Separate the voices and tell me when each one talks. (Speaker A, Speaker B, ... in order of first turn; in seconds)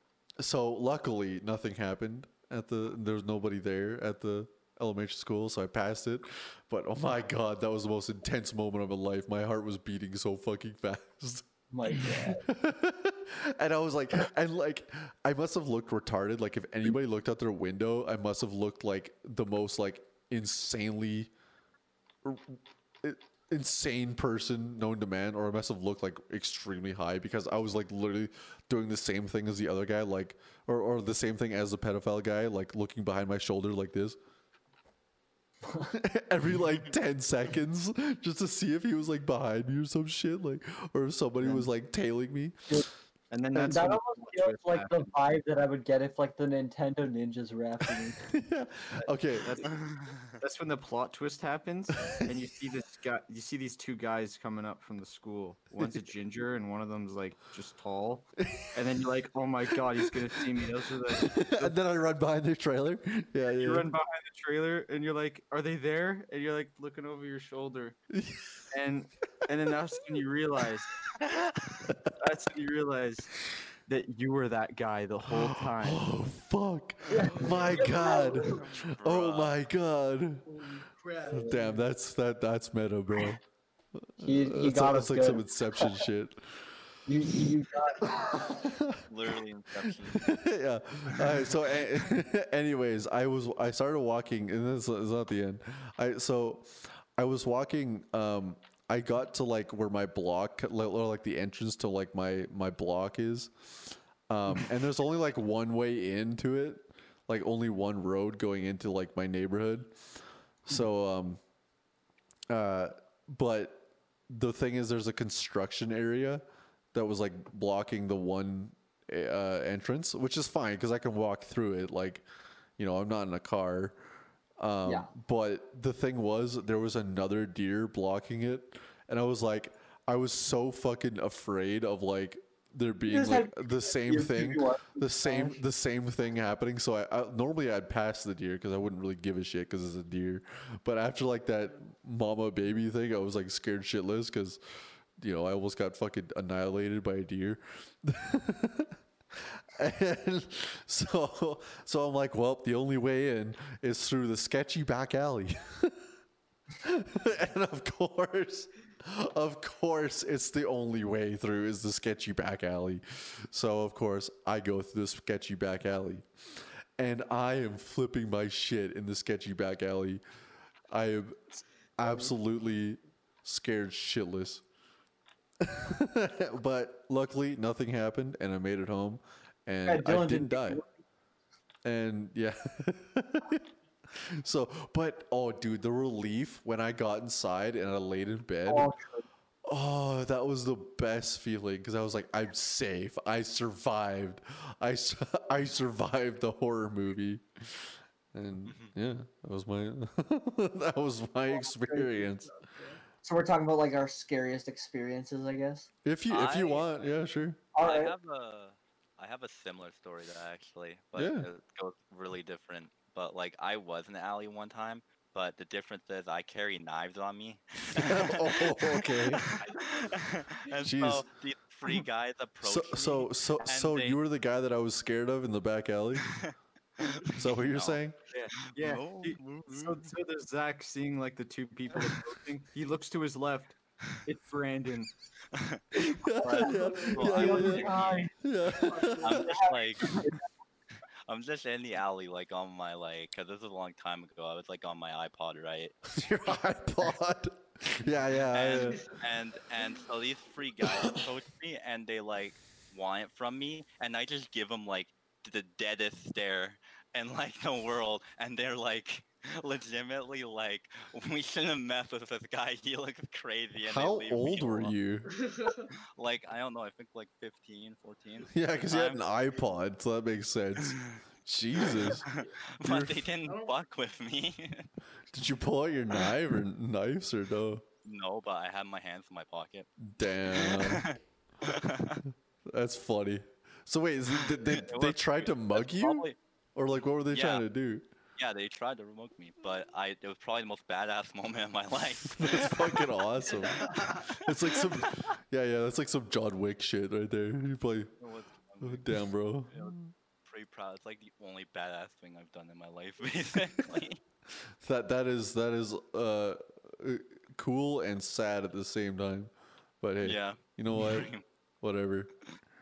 Speaker A: 0.4-21.3, 22.2-34.2, 35.9-42.7, 48.2-49.5, 58.4-58.8, 60.0-60.5, 61.1-63.9, 68.1-68.6, 71.9-72.1, 75.3-80.5, 81.3-83.4, 84.0-86.7, 88.0-89.0, 89.9-110.0, 110.6-111.4, 112.5-122.2, 122.8-124.0, 124.6-144.6, 145.2-148.9, 149.6-156.0, 156.8-166.3, 167.0-170.2, 170.9-171.4, 172.0-174.6, 175.6-180.8, 181.8-188.9, 189.7-202.5, 206.0-207.6, 211.2-211.4, 217.9-219.5, 220.8-221.2, 222.6-226.3, 227.4-228.2, 236.0-239.3, 246.1-249.1, 250.8-251.2, 263.9-265.3, 268.5-272.3, 272.8-273.3, 275.3-277.8, 280.0-281.1, 282.7-288.1, 292.4-298.1, 298.8-300.1, 304.8-312.3
Speaker B: 11.7-12.4, 43.5-48.2, 77.1-78.5, 81.3-81.6, 84.2-86.1, 87.1-88.5, 124.8-125.1, 133.0-135.6, 179.8-180.8, 188.7-189.2, 201.5-202.2, 203.2-205.9, 207.7-208.1, 237.2-238.3, 239.3-240.4
Speaker C: 41.4-41.7, 43.3-45.1, 49.0-61.7, 63.5-68.0, 68.7-71.1, 72.2-73.3, 73.8-76.1, 228.3-235.1
Speaker D: 49.7-50.4, 78.8-79.5, 89.1-90.4, 198.7-198.9, 206.3-207.2, 207.8-224.2, 226.2-228.0, 228.6-230.1, 235.5-235.8, 237.1-238.3, 239.2-240.2, 241.3-246.0, 248.5-264.9, 266.1-269.3, 270.8-271.1, 271.8-274.9, 278.0-279.9, 280.5-282.2, 284.4-286.4, 287.3-287.6, 288.4-295.2, 298.2-304.2, 310.2-311.4
Speaker E: 77.0-78.8, 80.4-81.8, 172.0-172.3, 202.0-203.0, 219.7-220.0, 236.5-240.0, 265.2-265.9, 273.5-273.7, 293.7-294.3